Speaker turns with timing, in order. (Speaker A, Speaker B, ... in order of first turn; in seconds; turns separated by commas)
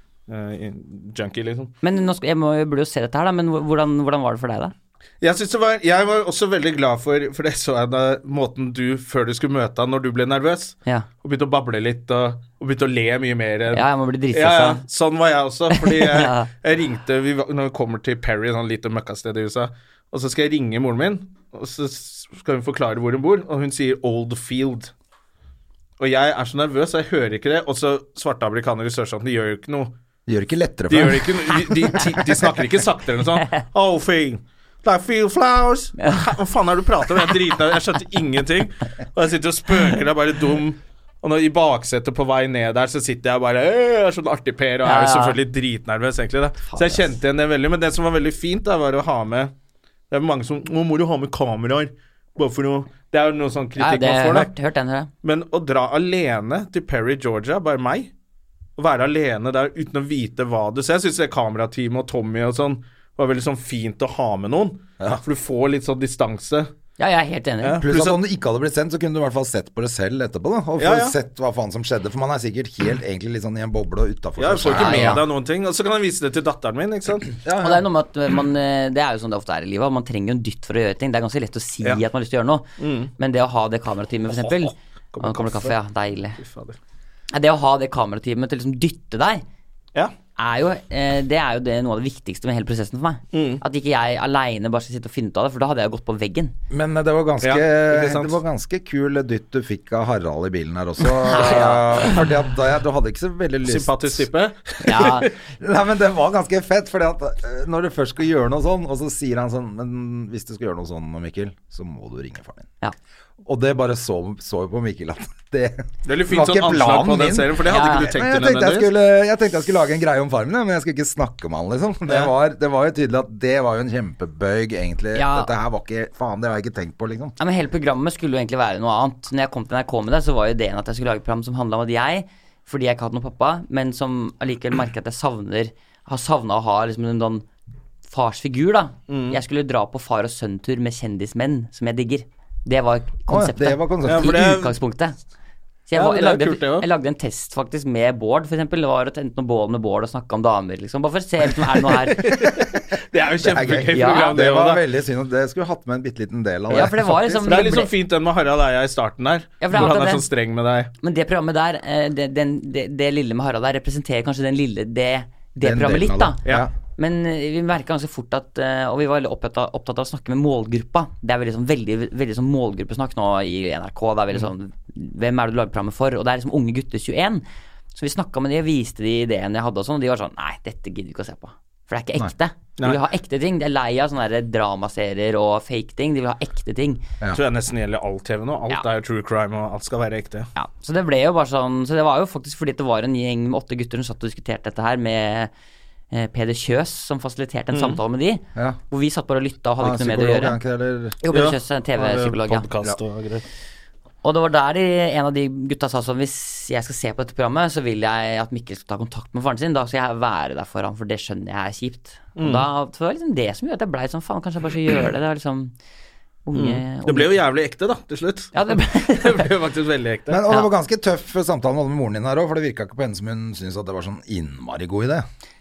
Speaker A: 0.3-1.7, Speaker B: 1.8-4.7, Speaker A: 5.2-24.9, Speaker B: 13.7-14.8, Speaker B: 15.7-16.5, Speaker A: 26.0-29.9, Speaker C: 30.3-31.6, Speaker A: 30.9-49.5, Speaker B: 44.8-45.4, Speaker B: 46.7-47.1, Speaker A: 50.1-54.5, Speaker B: 53.8-55.1, Speaker A: 55.2-58.1, Speaker A: 58.8-66.7, Speaker B: 67.0-67.8, Speaker A: 67.6-68.2, Speaker C: 67.8-75.2, Speaker A: 70.8-71.2, Speaker A: 74.4-77.3, Speaker B: 74.7-75.2, Speaker C: 77.4-77.8, Speaker B: 77.6-82.7, Speaker A: 82.8-83.1, Speaker B: 83.2-86.4, Speaker A: 84.3-85.8, Speaker A: 86.4-86.8, Speaker B: 87.3-89.4, Speaker B: 90.4-96.5, Speaker A: 93.3-93.6, Speaker C: 96.7-104.2, Speaker A: 97.4-98.4, Speaker B: 101.2-102.2, Speaker A: 103.6-105.3, Speaker B: 104.8-105.3, Speaker C: 105.6-112.7, Speaker C: 113.4-127.4, Speaker A: 116.0-118.9, Speaker B: 117.7-118.1, Speaker B: 125.1-125.5, Speaker B: 127.4-137.4, Speaker B: 138.1-145.2, Speaker A: 139.1-139.4, Speaker C: 143.3-144.4, Speaker A: 144.0-144.8, Speaker B: 145.9-152.3, Speaker A: 145.9-146.9, Speaker A: 151.6-154.8, Speaker C: 153.4-157.1, Speaker B: 153.9-154.4, Speaker B: 156.7-157.9, Speaker A: 156.8-160.9, Speaker B: 159.6-160.2, Speaker B: 161.0-166.4, Speaker C: 165.6-166.7, Speaker B: 167.0-187.0, Speaker A: 187.3-190.5, Speaker B: 190.5-195.5, Speaker B: 196.1-200.6, Speaker A: 197.7-198.0, Speaker C: 199.8-201.2, Speaker B: 201.2-202.7, Speaker A: 201.3-203.4, Speaker B: 204.2-215.7, Speaker A: 212.3-212.7, Speaker B: 216.4-217.3, Speaker A: 216.5-220.4, Speaker B: 218.5-219.5, Speaker C: 220.3-225.2